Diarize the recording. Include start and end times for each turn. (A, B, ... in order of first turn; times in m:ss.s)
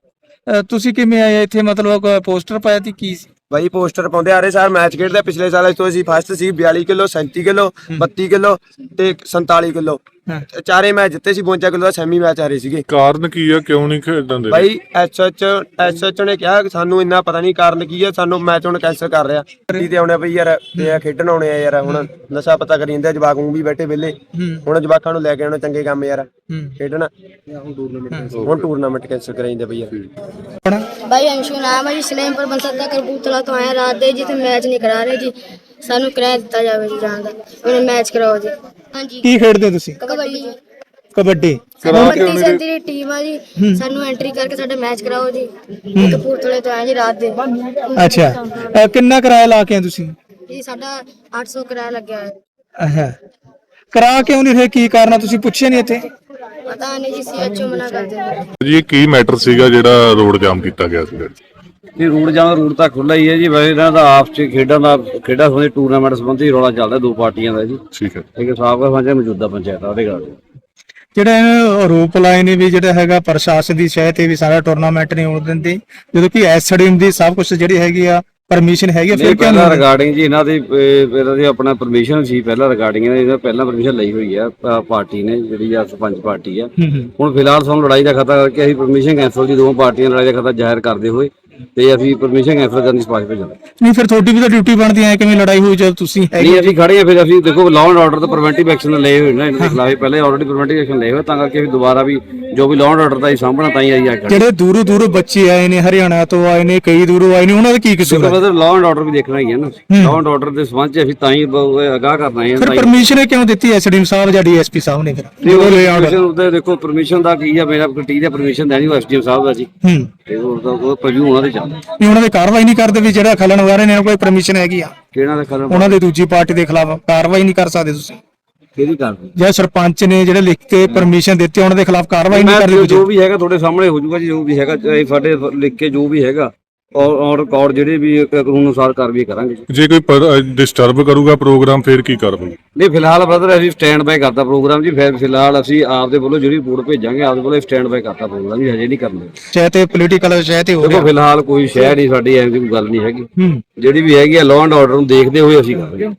0:00.5-0:03.3 A
0:03.5-0:10.0 B
0:10.5-0:12.8 B
0:12.9-0:14.7 C
0:14.5-0:27.1 B
0:24.4-0:24.7 A
0:26.5-0:26.8 A
0:28.1-0:28.4 A
0:28.3-0:29.9 B
0:31.0-0:39.3 D
0:39.2-0:40.0 A
0:40.0-0:40.6 D
0:41.2-0:42.2 A
0:41.8-0:42.6 C
0:41.9-0:48.3 D
0:43.6-0:43.8 A
0:46.0-0:46.2 A
0:48.0-0:50.2 A
0:50.5-0:52.4 D
0:52.8-0:53.2 A
0:53.9-0:56.1 A
0:56.7-0:58.4 D
0:58.6-1:01.4 C
1:02.0-1:07.8 E
1:07.9-1:08.3 C
1:08.3-1:10.4 E
1:11.2-1:19.9 A
1:19.1-1:33.6 E
1:26.8-1:27.1 A
1:33.8-1:36.8 A
1:36.4-1:44.4 E
1:44.3-1:48.4 A
1:48.0-1:53.0 E
1:49.9-1:50.2 A
1:52.6-1:56.2 A
1:55.4-1:59.7 E
1:59.8-2:00.1 A
2:00.3-2:01.8 E
2:02.0-2:05.0 A
2:05.1-2:06.0 E
2:05.7-2:08.2 A
2:08.8-2:09.3 E
2:09.4-2:13.0 A
2:12.3-2:19.6 E
2:19.7-2:22.6 C
2:22.8-2:29.3 E
2:29.5-2:31.1 A
2:30.8-2:36.1 E
2:33.4-2:33.6 A